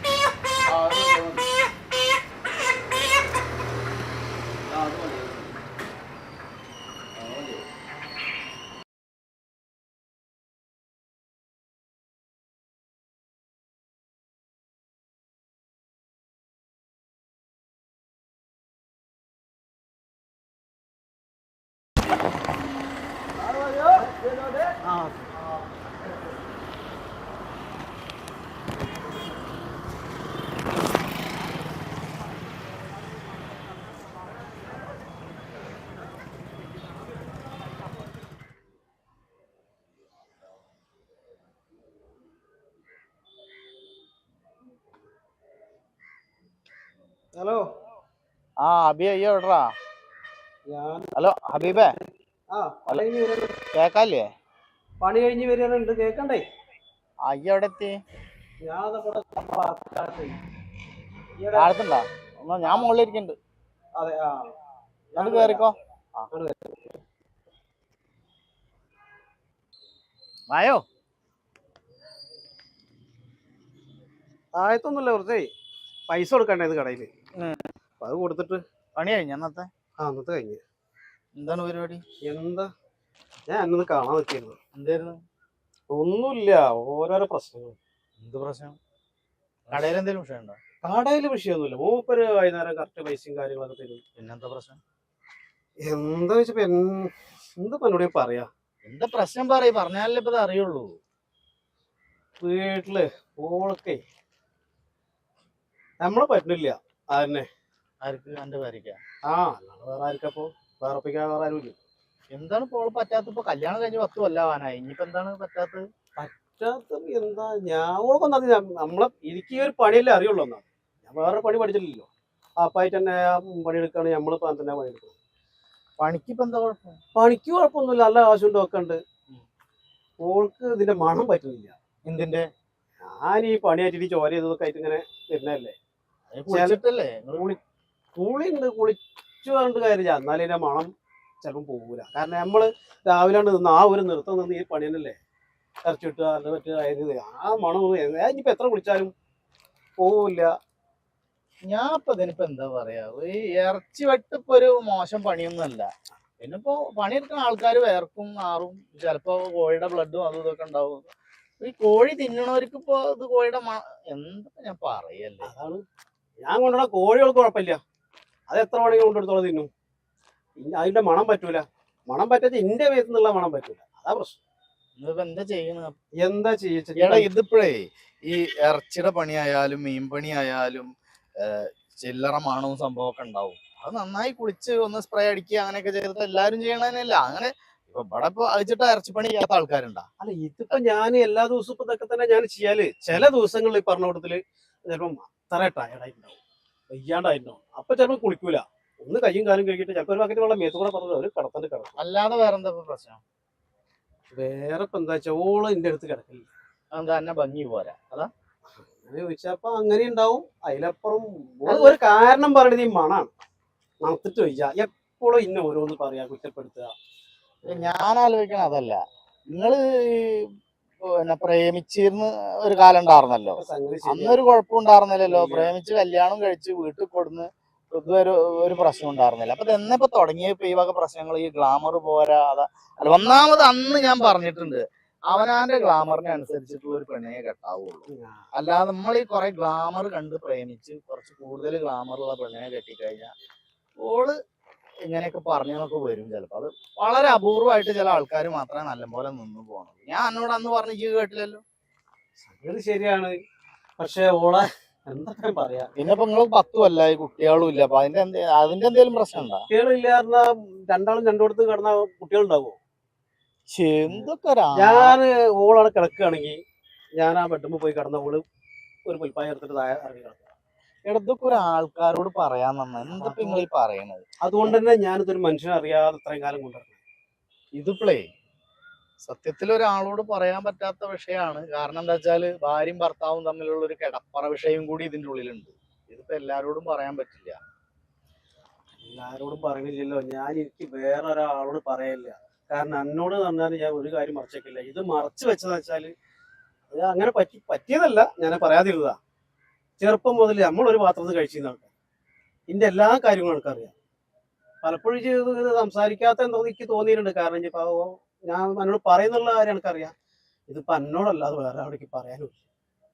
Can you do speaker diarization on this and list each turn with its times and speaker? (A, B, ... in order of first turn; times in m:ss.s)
0:00.7-0:01.4 A
0:07.2-0:07.5 A
0:23.4-0:25.4 B
0:47.3-0:47.6 B
0:48.6-0:49.7 A
0:50.7-0:51.1 B
0:51.2-0:52.0 A
0:51.8-0:53.6 B
0:53.7-0:54.3 A
0:55.0-0:56.4 B
0:57.2-0:57.9 A
0:58.6-1:00.4 B
1:01.4-1:01.7 B
1:01.5-1:03.4 A
1:04.0-1:04.5 B
1:05.1-1:05.7 B
1:05.1-1:06.3 A
1:06.3-1:07.0 B
1:10.5-1:10.8 A
1:14.5-1:15.5 B
1:16.1-1:17.1 B
1:17.4-1:17.6 A
1:18.0-1:18.6 B
1:19.0-1:19.7 A
1:20.0-1:20.6 B
1:21.4-1:22.0 A
1:22.2-1:22.7 B
1:23.5-1:24.6 B
1:24.7-1:25.2 A
1:25.9-1:27.8 B
1:28.2-1:28.8 A
1:29.7-1:30.6 A
1:30.8-1:34.0 B
1:34.2-1:34.8 A
1:35.8-1:38.5 B
1:38.8-1:41.0 A
1:42.4-1:44.0 B
1:46.0-1:47.5 B
1:48.0-1:49.0 A
1:49.2-1:51.7 B
1:52.3-1:55.9 A
1:56.2-2:02.1 B
2:02.6-2:05.1 B
2:06.0-2:07.0 A
2:07.1-2:09.0 B
2:10.2-2:11.7 B
2:12.0-2:12.5 A
2:13.0-2:15.7 B
2:16.3-2:17.4 A
2:16.5-2:16.8 B
2:17.3-2:17.6 B
2:18.1-2:20.9 B
2:21.4-2:25.2 B
2:25.8-2:29.1 B
2:30.0-2:30.5 B
2:31.6-2:41.1 A
2:41.6-2:45.5 A
2:45.4-2:45.8 B
2:46.4-2:47.8 B
2:48.5-2:49.7 B
2:50.6-2:54.4 B
2:55.0-2:55.9 A
2:56.2-2:57.3 B
2:57.0-3:10.1 A
3:10.2-3:22.0 B
3:22.0-3:23.2 A
3:24.3-3:26.5 B
3:26.9-3:28.3 A
3:29.0-3:33.3 B
3:31.6-3:32.0 A
3:34.0-3:36.9 B
3:37.6-4:03.3 A
3:37.6-3:37.9 B
3:43.6-3:44.4 B
3:45.3-3:45.7 B
3:58.1-3:58.4 B
4:04.0-4:04.4 A
4:05.1-4:11.6 A
4:12.4-4:13.4 B
4:14.0-4:15.9 B
4:16.0-4:19.7 A
4:19.7-4:22.8 B
4:23.7-4:25.2 A
4:24.1-4:26.6 B
4:27.2-4:28.4 B
4:29.0-4:30.5 B
4:31.0-4:34.2 A
4:33.0-4:33.6 B
4:34.4-4:37.0 B
4:37.7-4:38.3 A
4:39.2-4:47.6 A
4:49.0-4:56.1 B
4:56.9-4:59.2 B
5:00.0-5:01.9 B
5:02.7-5:03.9 B
5:04.8-5:10.1 B
5:10.7-5:12.5 B